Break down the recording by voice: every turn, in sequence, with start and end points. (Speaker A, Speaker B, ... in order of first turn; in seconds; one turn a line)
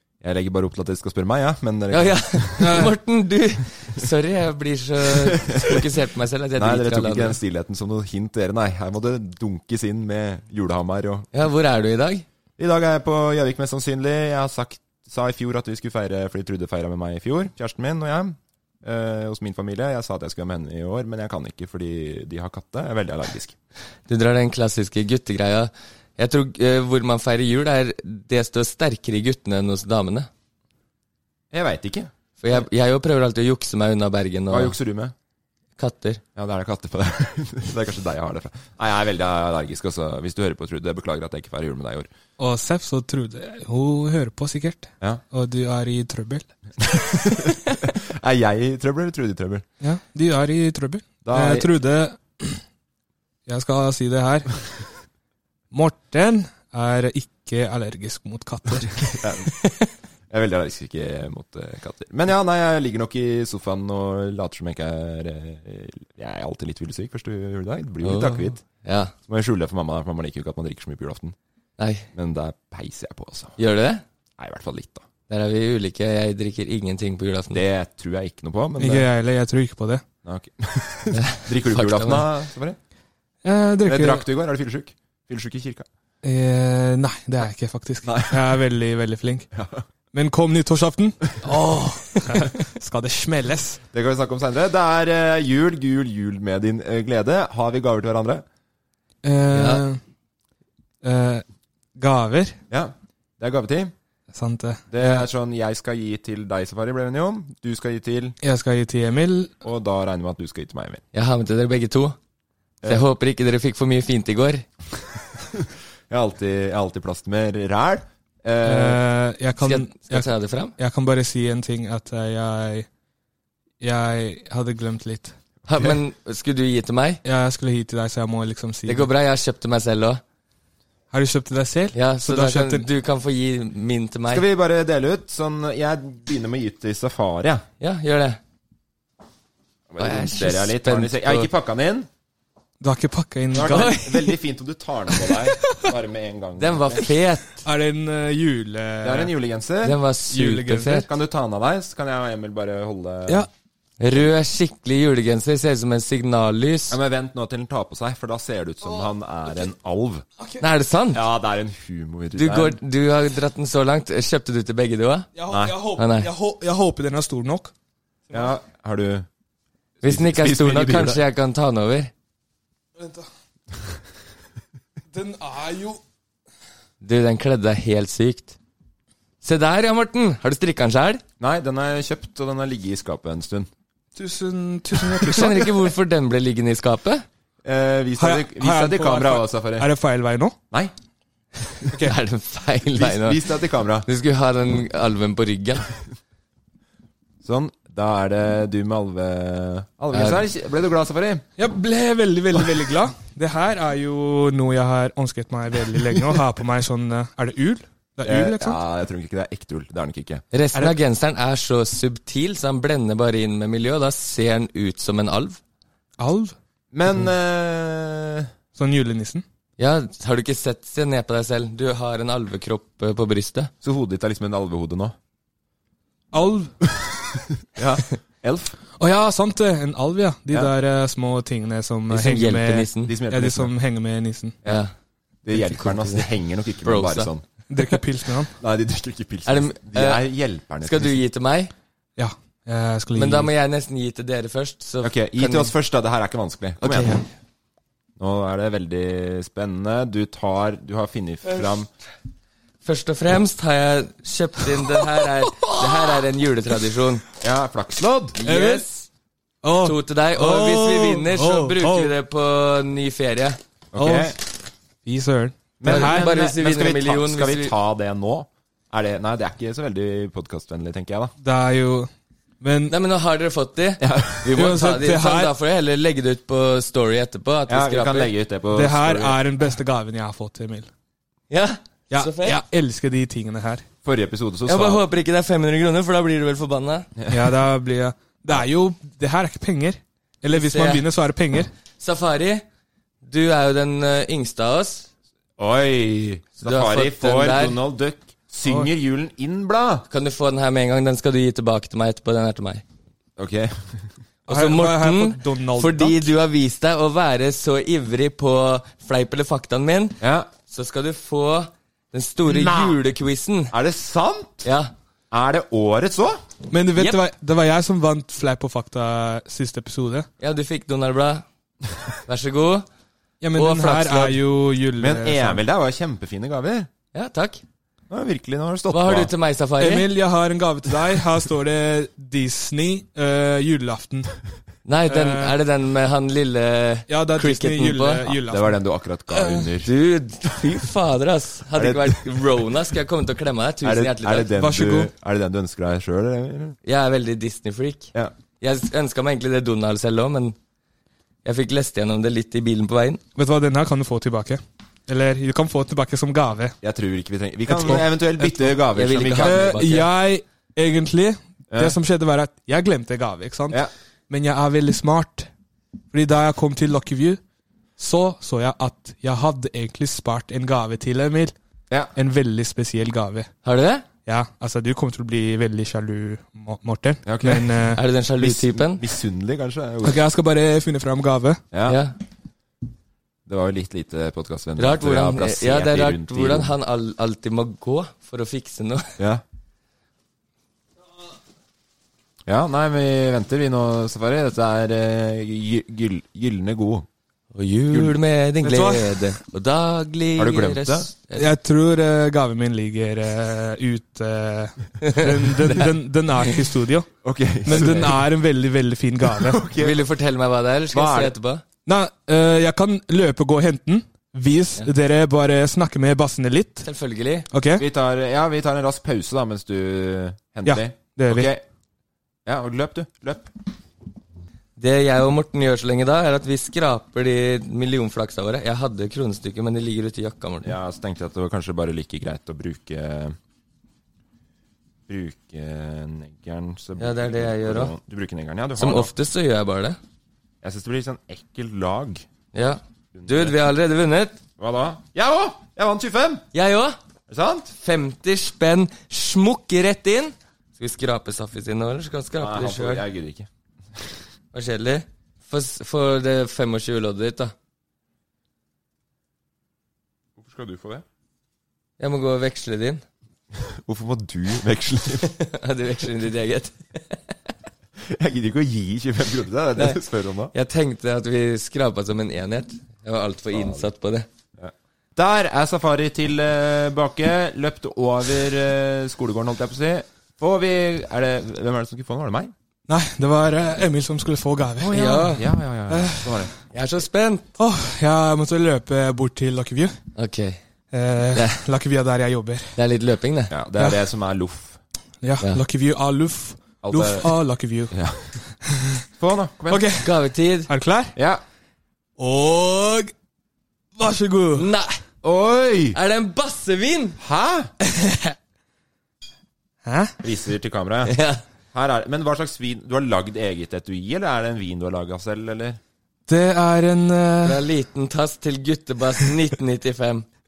Speaker A: 0.2-2.9
Speaker B: 1.9-7.4
Speaker C: 2.6-2.9
Speaker A: 5.1-5.8
Speaker A: 6.6-11.3
Speaker B: 11.3-12.2
Speaker A: 12.6-23.6
Speaker B: 24.1-30.3
Speaker A: 31.5-32.6
Speaker B: 32.4-34.8
Speaker A: 34.5-35.1
Speaker B: 35.8-36.2
Speaker A: 36.4-42.1
Speaker C: 42.4-46.5
Speaker A: 46.8-49.7
Speaker C: 49.8-52.6
Speaker A: 51.2-51.7
Speaker C: 53.5-54.6
Speaker C: 55.7-59.1
Speaker A: 59.1-59.5
Speaker A: 60.3-68.6
Speaker B: 68.0-69.1
Speaker A: 69.3-71.4
Speaker B: 71.8-72.1
Speaker A: 72.1-73.6
Speaker B: 73.6-74.0
Speaker A: 74.4-75.1
Speaker B: 75.3-77.6
Speaker A: 77.5-79.1
Speaker C: 78.8-80.0
Speaker A: 80.2-82.8
Speaker B: 81.1-82.2
Speaker C: 83.4-84.2
Speaker A: 83.9-85.9
Speaker C: 86.2-89.5
Speaker A: 88.0-88.6
Speaker A: 89.5-89.8
Speaker C: 90.1-93.8
Speaker A: 93.9-98.5
Speaker C: 99.2-100.0
Speaker B: 99.5-99.8
Speaker C: 101.0-102.6
Speaker A: 102.7-103.9
Speaker C: 104.3-105.2
Speaker A: 104.9-108.4
Speaker C: 108.4-109.5
Speaker A: 109.6-111.0
Speaker B: 111.1-112.2
Speaker B: 112.8-114.7
Speaker A: 115.5-119.0
Speaker C: 118.6-122.9
Speaker B: 119.6-120.8
Speaker C: 123.8-125.3
Speaker B: 125.7-127.2
Speaker C: 127.2-129.1
Speaker B: 128.9-130.2
Speaker C: 131.1-132.9
Speaker B: 131.9-134.4
Speaker A: 134.3-137.7
Speaker B: 137.8-138.4
Speaker A: 139.9-142.1
Speaker B: 140.0-141.5
Speaker C: 142.8-144.0
Speaker A: 143.5-147.1
Speaker B: 143.6-144.3
Speaker B: 146.6-147.7
Speaker C: 147.7-149.3
Speaker A: 149.0-150.0
Speaker B: 149.8-151.1
Speaker C: 150.3-151.0
Speaker A: 150.8-153.5
Speaker B: 154.0-157.0
Speaker A: 156.9-160.2
Speaker B: 160.6-161.2
Speaker A: 161.1-162.8
Speaker B: 162.4-165.3
Speaker C: 165.3-167.7
Speaker A: 165.5-165.8
Speaker B: 165.9-166.3
Speaker A: 168.3-169.3
Speaker A: 170.0-171.2
Speaker B: 170.0-172.1
Speaker C: 173.0-173.3
Speaker C: 175.1-176.0
Speaker B: 177.0-178.6
Speaker B: 179.4-181.2
Speaker A: 181.4-183.7
Speaker C: 184.2-185.8
Speaker B: 185.2-187.2
Speaker A: 187.6-189.9
Speaker C: 188.2-190.6
Speaker B: 192.0-193.4
Speaker A: 192.9-194.1
Speaker B: 194.1-195.9
Speaker A: 197.4-201.5
Speaker B: 200.1-200.4
Speaker C: 201.6-208.8
Speaker A: 208.2-210.4
Speaker B: 210.5-215.6
Speaker C: 216.2-216.6
Speaker A: 216.9-218.5
Speaker C: 218.8-219.4
Speaker B: 219.8-223.7
Speaker A: 223.8-225.2
Speaker C: 226.3-226.8
Speaker A: 227.8-228.8
Speaker C: 229.0-234.6
Speaker B: 232.1-233.1
Speaker A: 233.1-233.7
Speaker B: 234.7-234.9
Speaker A: 235.4-237.4
Speaker B: 235.5-236.3
Speaker B: 236.8-237.3
Speaker C: 237.7-238.5
Speaker A: 238.6-241.2
Speaker B: 239.5-240.2
Speaker B: 240.8-241.7
Speaker C: 242.2-243.5
Speaker B: 243.1-245.7
Speaker A: 245.0-247.2
Speaker B: 246.8-247.2
Speaker A: 248.2-251.9
Speaker B: 252.8-257.2
Speaker C: 255.7-256.2
Speaker A: 257.4-258.4
Speaker B: 258.4-259.0
Speaker C: 258.4-258.9
Speaker C: 259.6-262.1
Speaker B: 259.8-263.6
Speaker A: 263.9-264.4
Speaker C: 264.0-264.4
Speaker C: 265.0-266.3
Speaker A: 265.8-271.3
Speaker B: 265.9-267.7
Speaker C: 271.4-272.1
Speaker C: 272.6-272.9
Speaker B: 272.9-278.3
Speaker A: 274.0-274.6
Speaker C: 274.5-275.5
Speaker A: 277.7-279.4
Speaker C: 278.7-280.9
Speaker B: 281.5-282.6
Speaker C: 282.1-283.9
Speaker A: 284.0-285.0
Speaker B: 284.7-287.1
Speaker A: 287.2-287.5
Speaker C: 287.3-291.7
Speaker B: 290.5-291.1
Speaker B: 292.0-292.6
Speaker B: 293.2-295.1
Speaker A: 295.6-300.1
Speaker B: 296.6-297.8
Speaker C: 298.6-298.9
Speaker B: 300.1-302.8
Speaker A: 303.4-304.1
Speaker C: 304.5-306.3
Speaker B: 304.5-313.7
Speaker A: 310.2-310.5
Speaker A: 312.5-313.0
Speaker A: 313.7-314.7
Speaker B: 314.6-314.9
Speaker A: 315.3-316.4
Speaker C: 316.7-320.3
Speaker B: 317.0-317.2
Speaker B: 320.4-321.5
Speaker B: 322.3-322.9
Speaker C: 323.4-325.6
Speaker B: 323.6-324.4
Speaker A: 325.0-326.9
Speaker B: 327.1-327.6
Speaker A: 328.1-329.3
Speaker B: 328.9-330.1
Speaker C: 329.8-334.3
Speaker B: 334.9-338.4
Speaker C: 335.1-335.6
Speaker C: 337.1-338.8
Speaker A: 338.5-339.9
Speaker C: 339.4-339.6
Speaker B: 339.8-344.5
Speaker A: 341.7-342.3
Speaker A: 343.8-346.8
Speaker C: 344.6-345.1
Speaker B: 346.8-350.6
Speaker B: 351.4-353.2
Speaker C: 353.4-356.8
Speaker A: 356.8-359.8
Speaker C: 357.7-358.1
Speaker B: 358.7-360.1
Speaker C: 359.3-365.5
Speaker A: 361.7-362.0
Speaker C: 366.1-367.4
Speaker C: 368.0-371.6
Speaker C: 372.2-373.5
Speaker B: 373.6-374.1
Speaker C: 374.3-378.0
Speaker A: 377.2-380.2
Speaker B: 377.9-379.1
Speaker C: 380.0-381.6
Speaker A: 381.7-382.0
Speaker B: 381.9-382.2
Speaker A: 383.5-386.7
Speaker B: 384.8-389.2
Speaker A: 389.2-389.4
Speaker A: 392.5-397.1
Speaker B: 397.5-401.5
Speaker C: 398.6-399.2
Speaker A: 400.4-401.1
Speaker C: 401.4-407.1
Speaker A: 407.2-408.3
Speaker C: 407.6-409.6
Speaker B: 407.7-408.0
Speaker A: 409.2-410.0
Speaker B: 409.8-411.6
Speaker A: 410.9-411.3
Speaker C: 411.9-416.9
Speaker B: 416.8-417.5
Speaker C: 417.5-417.8
Speaker A: 417.8-421.6
Speaker C: 420.7-421.5
Speaker A: 422.5-423.5
Speaker B: 424.8-430.7
Speaker A: 430.6-433.4
Speaker A: 435.1-439.1
Speaker B: 437.0-437.9
Speaker B: 438.8-440.0
Speaker A: 440.6-442.3
Speaker B: 442.5-444.4
Speaker A: 443.1-443.6
Speaker A: 444.6-446.4
Speaker B: 446.5-447.0
Speaker A: 447.3-447.7
Speaker B: 447.8-453.0
Speaker A: 452.4-454.1
Speaker B: 454.5-457.5
Speaker A: 460.4-461.1
Speaker B: 462.0-463.0
Speaker A: 463.6-465.3
Speaker B: 465.3-467.2
Speaker A: 468.0-470.5
Speaker B: 470.5-474.3
Speaker A: 473.5-473.9
Speaker A: 474.6-482.5
Speaker C: 482.9-486.4
Speaker A: 484.8-486.5
Speaker B: 484.9-485.4
Speaker B: 486.7-487.5
Speaker C: 487.6-489.9
Speaker B: 490.2-490.6
Speaker C: 490.9-492.7
Speaker B: 492.8-493.5
Speaker A: 493.5-494.8
Speaker C: 495.2-497.9
Speaker A: 496.8-497.4
Speaker A: 497.9-498.4
Speaker C: 498.7-499.0
Speaker A: 499.2-499.9
Speaker C: 499.7-500.1
Speaker B: 500.0-500.7
Speaker C: 500.7-501.2
Speaker A: 501.2-501.4
Speaker C: 502.2-503.1
Speaker C: 504.0-504.7
Speaker B: 504.6-505.0
Speaker A: 505.2-506.0
Speaker B: 505.9-507.2
Speaker A: 507.2-507.7
Speaker C: 507.9-508.3
Speaker C: 509.8-510.2
Speaker A: 510.2-511.2
Speaker B: 511.1-511.4
Speaker A: 511.7-515.8
Speaker C: 516.3-517.6
Speaker B: 517.4-520.2